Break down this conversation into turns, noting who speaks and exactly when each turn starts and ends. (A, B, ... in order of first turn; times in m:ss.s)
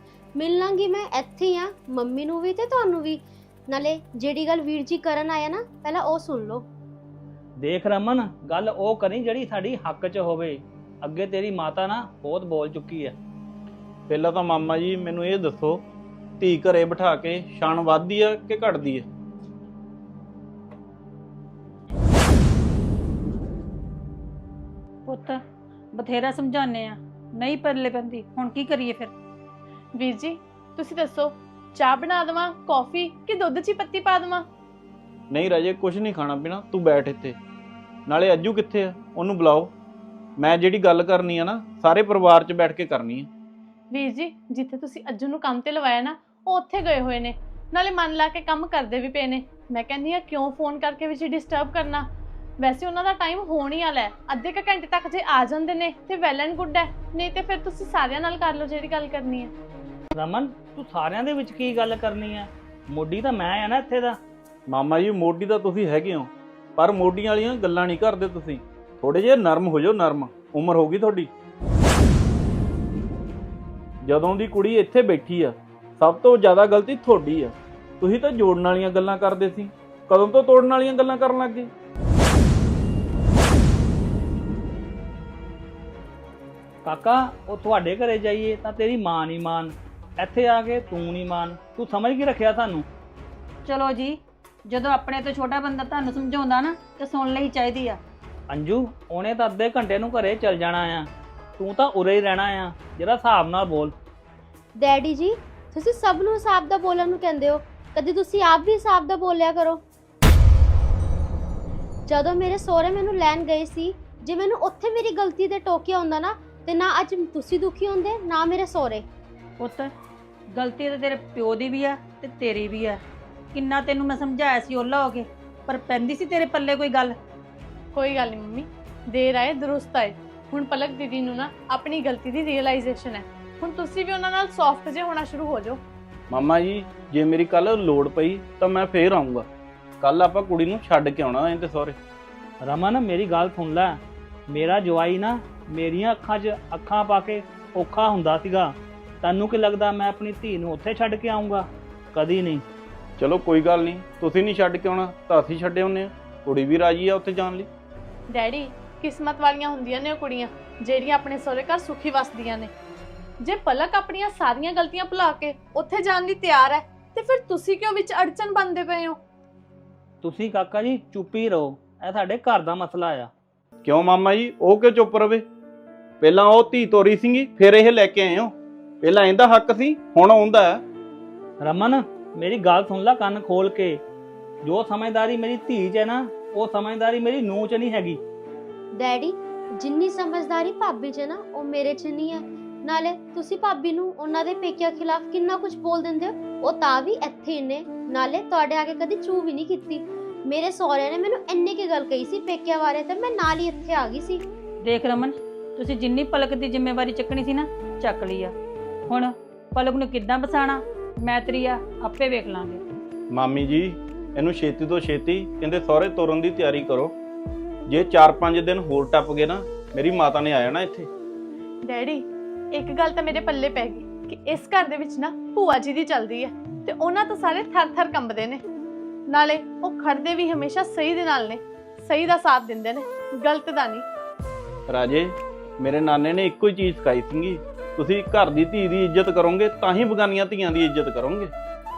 0:00.3-0:06.7 A
0:07.6-0:13.1 B
0:14.1-0:15.8 C
0:16.4-0:19.1 C
0:25.1-0:25.4 D
0:25.9-0:29.1 D
0:30.0-0:31.2 E
0:31.8-0:34.4 E
0:35.3-0:37.4 C
0:38.1-0:39.7 C
0:40.4-0:43.3 C
0:44.0-0:45.9 E
0:46.5-0:47.3 E
0:47.8-0:52.0 E
0:52.7-0:59.4 E
1:00.1-1:04.2 B
1:04.7-1:11.3 C
1:14.0-1:21.7 C
1:26.8-1:32.8 B
1:33.6-1:38.0 D
1:38.5-1:43.9 B
1:44.8-1:49.8 A
1:52.0-1:59.0 A
1:59.6-1:59.9 D
2:00.5-2:03.0 D
2:03.5-2:07.2 D
2:08.0-2:08.6 E
2:09.2-2:15.8 E
2:16.3-2:19.4 C
2:20.0-2:22.0 C
2:22.6-2:24.0 B
2:24.5-2:32.6 B
2:33.2-2:37.7 C
2:38.4-2:42.7 E
2:43.5-2:49.1 E
2:50.2-2:53.3 B
2:53.8-2:55.4 C
2:56.2-3:00.8 C
3:01.6-3:04.0 B
3:04.6-3:08.2 B
3:08.9-3:24.4 A
3:24.8-3:28.5 D
3:29.1-3:32.8 D
3:33.3-3:37.1 C
3:37.9-3:41.1 C
3:41.9-3:42.2 E
3:42.8-3:48.6 E
3:49.3-3:51.6 E
3:52.1-3:54.0 E
3:54.9-4:01.5 C